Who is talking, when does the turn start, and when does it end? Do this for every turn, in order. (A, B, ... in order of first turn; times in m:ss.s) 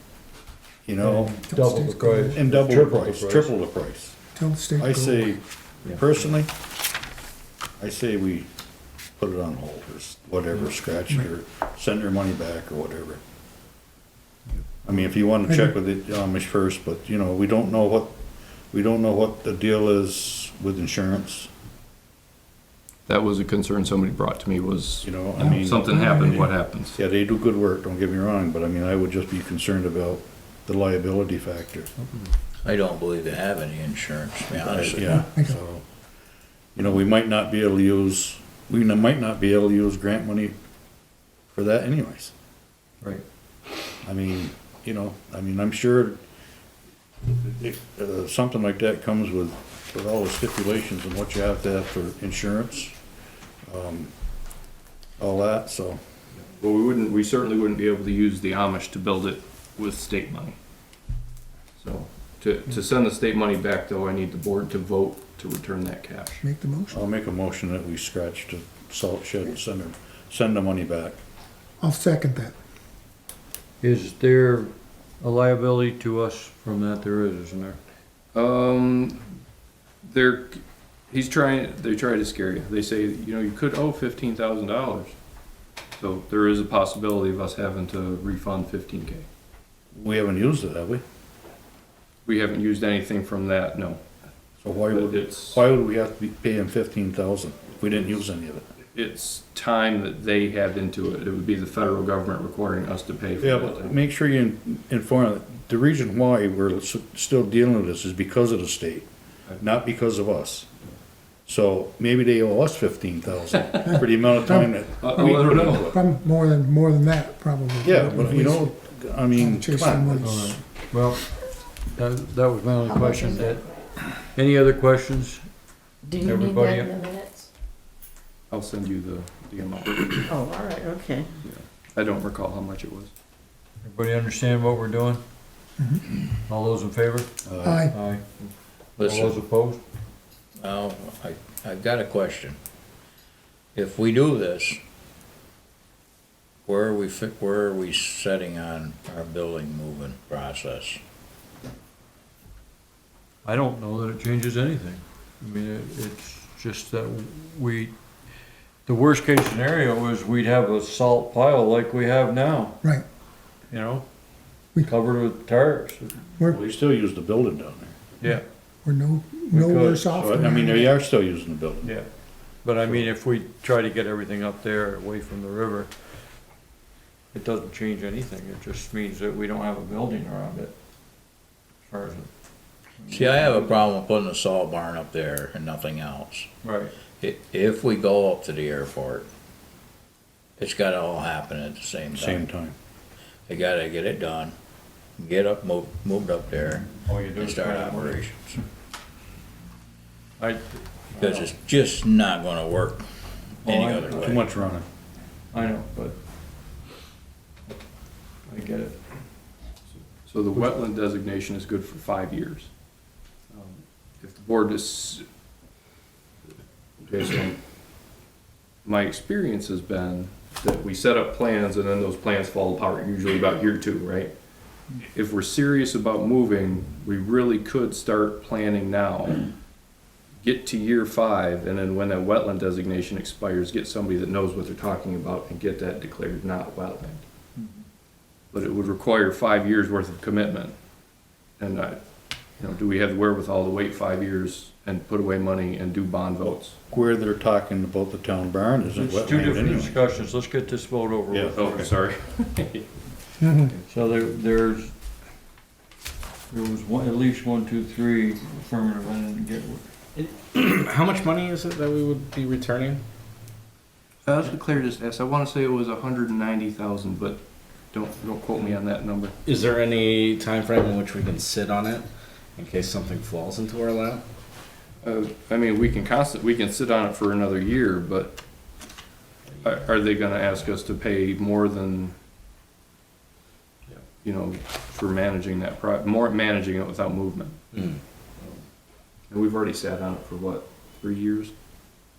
0:00.8-0:01.4 A
0:01.0-0:03.5 B
0:01.5-0:02.5 C
0:02.3-0:04.2 A
0:04.3-0:05.3 C
0:04.8-0:06.5 A
0:07.8-0:08.5 A
0:09.2-0:13.2 A
0:14.8-0:18.2 A
0:18.7-0:21.5 A
0:23.1-0:27.0 D
0:25.0-0:26.0 A
0:25.9-0:26.5 C
0:27.0-0:31.9 A
0:32.6-0:35.2 E
0:34.5-0:35.8 A
0:35.0-0:35.5 C
0:36.7-0:40.5 A
0:41.5-0:42.3 A
0:44.0-0:46.2 A
0:47.2-0:53.0 A
0:53.6-0:54.1 A
0:55.2-0:56.0 A
0:56.4-1:00.6 D
1:01.8-1:06.4 D
1:06.4-1:07.0 C
1:06.9-1:11.2 A
1:11.8-1:12.5 C
1:13.8-1:17.8 B
1:18.3-1:19.2 D
1:20.0-1:25.2 D
1:25.9-1:29.2 D
1:29.9-1:31.0 A
1:32.2-1:34.0 D
1:34.6-1:38.7 A
1:34.9-1:35.6 D
1:38.9-1:44.0 D
1:43.4-1:49.1 A
1:49.6-1:50.7 A
1:51.5-1:55.9 A
1:53.9-1:58.7 C
1:55.0-1:56.0 D
1:57.8-2:00.5 A
1:59.3-2:00.5 C
2:00.2-2:05.5 B
2:02.9-2:03.5 F
2:06.0-2:07.5 F
2:06.2-2:07.0 B
2:08.5-2:10.4 D
2:10.3-2:11.3 F
2:11.4-2:13.1 D
2:13.8-2:15.2 B
2:16.3-2:17.3 B
2:17.4-2:17.8 A
2:17.6-2:17.9 C
2:17.9-2:18.2 B
2:19.0-2:19.8 B
2:19.0-2:19.3 D
2:20.6-2:22.6 E
2:23.7-2:24.8 E
2:26.6-2:31.0 E
2:33.4-2:37.9 B
2:38.8-2:42.8 B
2:43.7-2:44.0 B
2:44.8-2:46.2 B
2:46.4-2:47.9 A
2:48.8-2:50.9 C
2:49.5-2:50.5 B
2:50.2-2:51.9 A
2:52.6-2:55.9 B
2:52.8-2:53.1 A
2:57.3-3:00.7 B
3:01.8-3:02.3 B
3:03.0-3:03.8 B
3:03.1-3:06.5 E
3:06.6-3:06.9 B
3:07.2-3:09.3 E
3:10.6-3:12.4 E
3:12.1-3:12.7 A
3:13.5-3:14.5 E
3:15.2-3:18.6 E
3:17.0-3:18.2 B
3:20.4-3:21.5 B
3:21.2-3:23.1 E
3:23.6-3:24.4 E
3:23.6-3:24.5 B
3:24.1-3:24.8 A
3:25.5-3:26.2 B
3:28.4-3:29.0 B
3:30.2-3:32.7 D
3:33.5-3:35.2 D
3:37.0-3:37.6 D
3:38.8-3:44.3 D
3:45.0-3:49.5 D
3:50.4-3:57.2 D
3:58.5-4:00.7 D
4:01.6-4:02.0 D
4:02.6-4:06.8 D
4:06.5-4:10.0 A
4:08.9-4:11.9 B
4:11.3-4:11.9 A
4:11.5-4:13.0 D
4:13.4-4:13.7 C
4:13.5-4:13.8 D
4:13.9-4:14.9 B
4:16.5-4:19.8 B
4:20.1-4:23.0 G
4:24.2-4:29.3 D
4:29.4-4:34.2 G
4:35.0-4:38.4 D
4:39.6-4:42.1 D
4:44.0-4:47.8 D
4:49.3-4:51.5 D